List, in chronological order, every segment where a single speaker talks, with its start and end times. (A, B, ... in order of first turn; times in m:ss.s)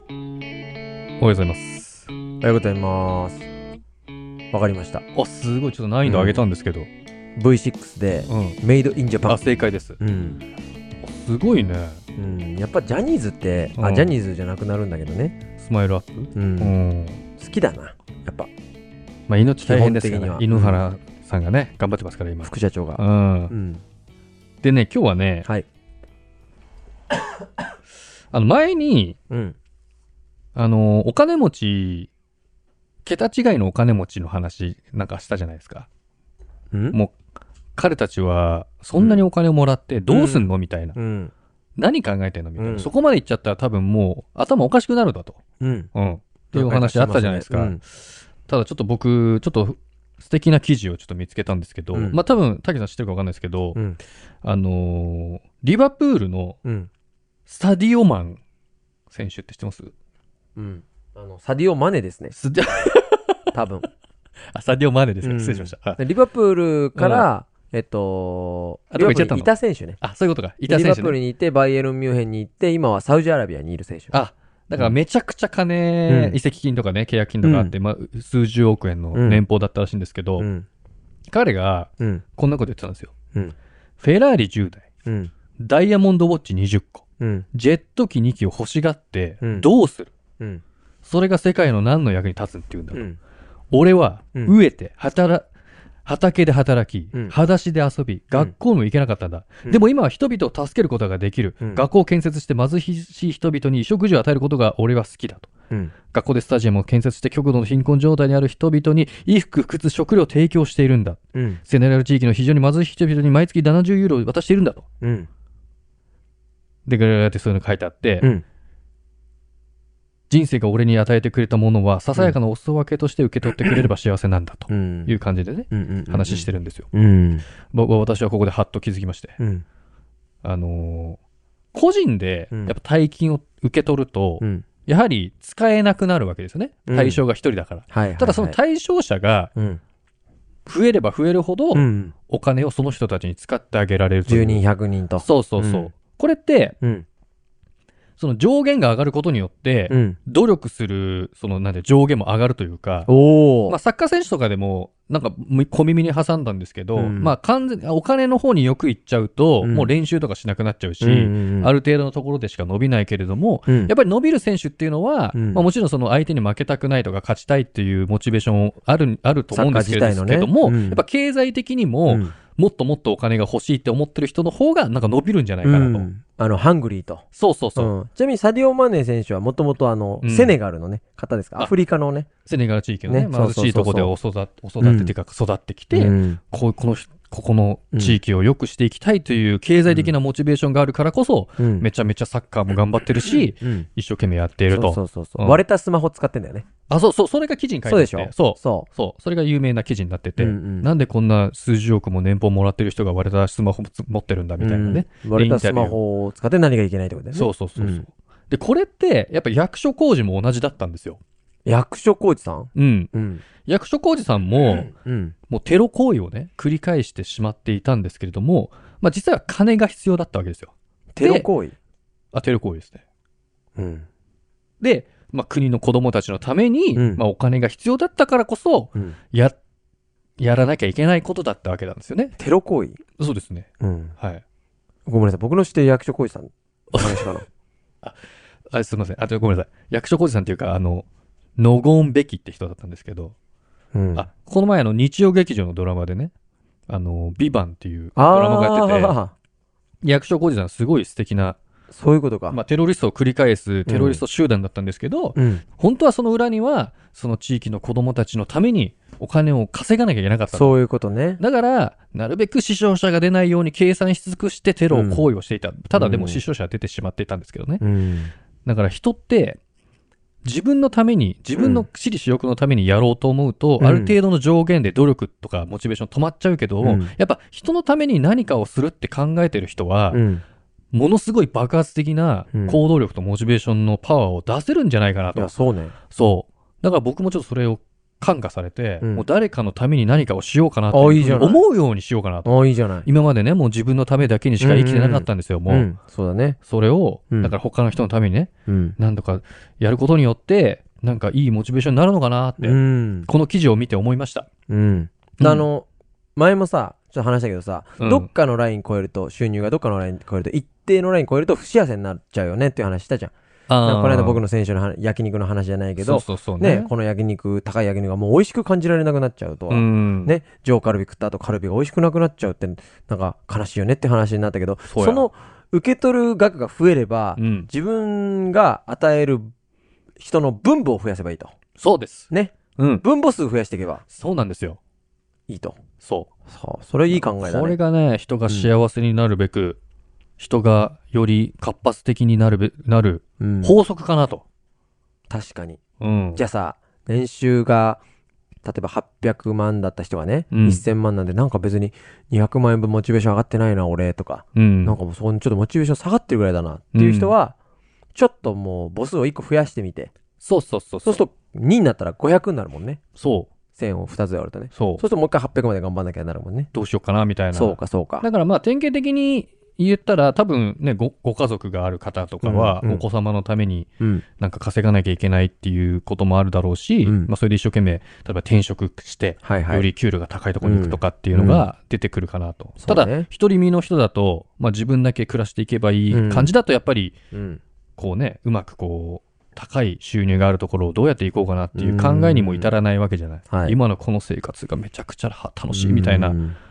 0:01.2-0:02.1 A
0:02.4-0:03.5 B
0:04.5-0:05.0 B
0:05.1-0:06.9 A
0:06.0-0:06.4 B
0:07.4-0:09.4 B
0:08.3-0:08.6 A
0:09.3-0:10.0 A
0:10.0-0:10.4 B
0:11.0-0:12.0 A
0:12.2-0:15.4 B
0:13.8-0:14.1 A
0:15.6-0:17.2 A
0:16.4-0:16.8 B
0:17.4-0:18.5 B
0:19.3-0:23.5 A
0:19.6-0:20.8 B
0:22.4-0:23.8 B
0:24.6-0:25.5 A
0:28.3-0:29.2 A
0:29.3-0:29.6 B
0:30.6-0:32.1 A
0:33.0-0:35.9 A
0:36.7-0:37.0 B
0:37.8-0:41.0 A
0:39.0-0:39.2 B
0:40.1-0:41.3 B
0:41.8-0:45.4 A
0:42.6-0:42.9 B
0:45.6-0:45.9 B
0:45.9-0:53.8 A
0:46.5-0:47.8 B
0:54.4-0:56.6 A
0:56.6-0:56.9 B
0:57.5-0:58.4 A
0:59.1-0:59.9 A
1:00.6-1:02.4 B
1:02.3-1:03.5 A
1:03.5-1:03.9 B
1:04.5-1:06.0 A
1:05.2-1:10.0 B
1:07.0-1:07.3 A
1:08.9-1:11.2 A
1:10.7-1:14.1 B
1:14.1-1:20.5 A
1:16.1-1:16.4 B
1:17.4-1:17.7 B
1:19.1-1:19.4 B
1:20.4-1:20.7 B
1:21.3-1:23.1 A
1:24.0-1:24.8 A
1:25.1-1:25.3 B
1:25.6-1:30.1 A
1:27.2-1:27.5 B
1:29.4-1:29.7 B
1:31.0-1:33.0 A
1:32.9-1:33.2 B
1:33.7-1:35.5 A
1:36.0-1:45.5 A
1:46.1-1:54.8 A
1:51.4-1:51.6 B
1:55.0-1:55.3 B
1:56.9-1:58.3 A
2:00.3-2:06.9 A
2:04.7-2:05.1 B
2:05.7-2:07.4 B
2:07.7-2:09.4 A
2:09.4-2:09.6 B
2:10.4-2:11.2 A
2:11.7-2:19.5 A
2:14.4-2:14.7 B
2:16.9-2:17.2 B
2:17.9-2:18.6 B
2:20.7-2:24.6 A
2:21.7-2:22.1 B
2:24.3-2:25.9 B
2:25.2-2:26.8 A
2:26.8-2:27.1 B
2:28.2-2:33.1 A
2:29.9-2:30.2 B
2:33.1-2:33.8 B
2:33.7-2:56.1 A
2:37.0-2:37.3 B
2:39.6-2:39.9 B
2:41.0-2:41.7 B
2:43.7-2:43.9 B
2:45.3-2:45.6 B
2:49.5-2:51.0 B
2:52.1-2:52.3 B
2:55.6-2:57.2 B
2:57.3-2:57.9 A
2:57.8-3:02.3 B
3:00.2-3:00.6 A
3:02.4-3:15.6 A
3:03.1-3:04.1 B
3:04.8-3:05.1 B
3:05.9-3:06.4 B
3:07.9-3:08.2 B
3:09.9-3:10.1 B
3:11.6-3:11.9 B
3:13.3-3:13.9 B
3:14.7-3:16.7 B
3:16.9-3:26.0 A
3:17.8-3:18.9 B
3:20.4-3:20.9 B
3:24.6-3:28.1 B
3:27.3-3:31.2 A
3:31.7-3:33.4 B
3:32.8-3:34.9 A
3:34.6-3:35.4 B
3:35.5-3:41.5 A
3:41.2-3:41.8 B
3:42.3-3:43.0 A
3:43.8-3:44.1 B
3:44.8-3:49.6 A
3:47.0-3:47.2 B
3:50.4-3:52.4 A
3:52.4-3:53.0 B
3:53.2-3:53.7 A
3:53.8-3:54.2 B
3:55.1-3:57.5 B
3:57.0-3:57.2 A
3:58.7-4:01.1 A
4:01.6-4:03.4 A
4:03.9-4:04.3 B
4:04.2-4:06.3 A
4:06.9-4:09.2 A
4:08.2-4:09.3 B
4:10.0-4:11.6 A
4:11.9-4:12.6 B
4:12.5-4:20.8 A
4:13.9-4:14.2 B
4:15.4-4:15.6 B
4:20.5-4:21.4 B
4:21.4-4:27.8 A
4:24.9-4:25.2 B
4:25.9-4:26.4 B
4:27.8-4:28.3 B
4:28.6-4:29.6 A
4:30.4-4:40.2 A
4:31.6-4:31.8 B
4:33.8-4:34.2 B
4:36.8-4:37.1 B
4:40.1-4:40.4 B
4:40.9-4:45.5 A
4:42.5-4:42.8 B
4:45.4-4:46.0 B
4:46.1-4:55.9 A
4:49.0-4:49.3 B
4:50.9-4:51.6 B
4:52.4-4:53.1 B
4:54.6-4:56.6 B
4:56.6-5:04.5 A
4:58.7-4:59.0 B
5:02.6-5:03.3 B
5:04.7-5:29.5 B
5:05.4-5:05.6 A
5:08.0-5:08.3 A
5:13.7-5:14.4 A
5:16.0-5:16.9 A
5:19.7-5:20.3 A
5:24.9-5:25.3 A
5:27.4-5:27.7 A
5:30.2-5:31.5 B
5:31.8-5:33.0 A
5:32.3-5:34.0 B
5:34.1-5:34.8 A
5:35.5-5:35.8 B
5:36.0-5:36.3 A
5:36.5-5:37.8 B
5:37.1-5:39.8 A
5:40.4-5:44.4 A
5:43.4-5:43.8 B
5:45.3-5:45.8 B
5:46.0-5:46.4 A
5:46.4-5:48.0 B
5:48.6-5:57.6 B
5:50.5-5:50.8 A
5:54.6-5:55.0 A
5:56.9-5:57.3 A
5:58.2-6:00.1 B
6:00.4-6:01.2 A
6:01.0-6:03.0 B
6:03.2-6:03.5 A
6:03.8-6:06.7 B
6:04.7-6:05.0 A
6:06.7-6:27.1 A
6:07.5-6:08.3 B
6:12.4-6:13.0 B
6:17.0-6:17.3 B
6:19.4-6:19.9 B
6:20.6-6:21.6 B
6:22.8-6:23.3 B
6:26.1-6:26.5 B
6:27.3-6:27.6 B
6:28.0-6:36.4 A
6:31.8-6:32.7 B
6:33.5-6:33.8 B
6:35.7-6:36.6 B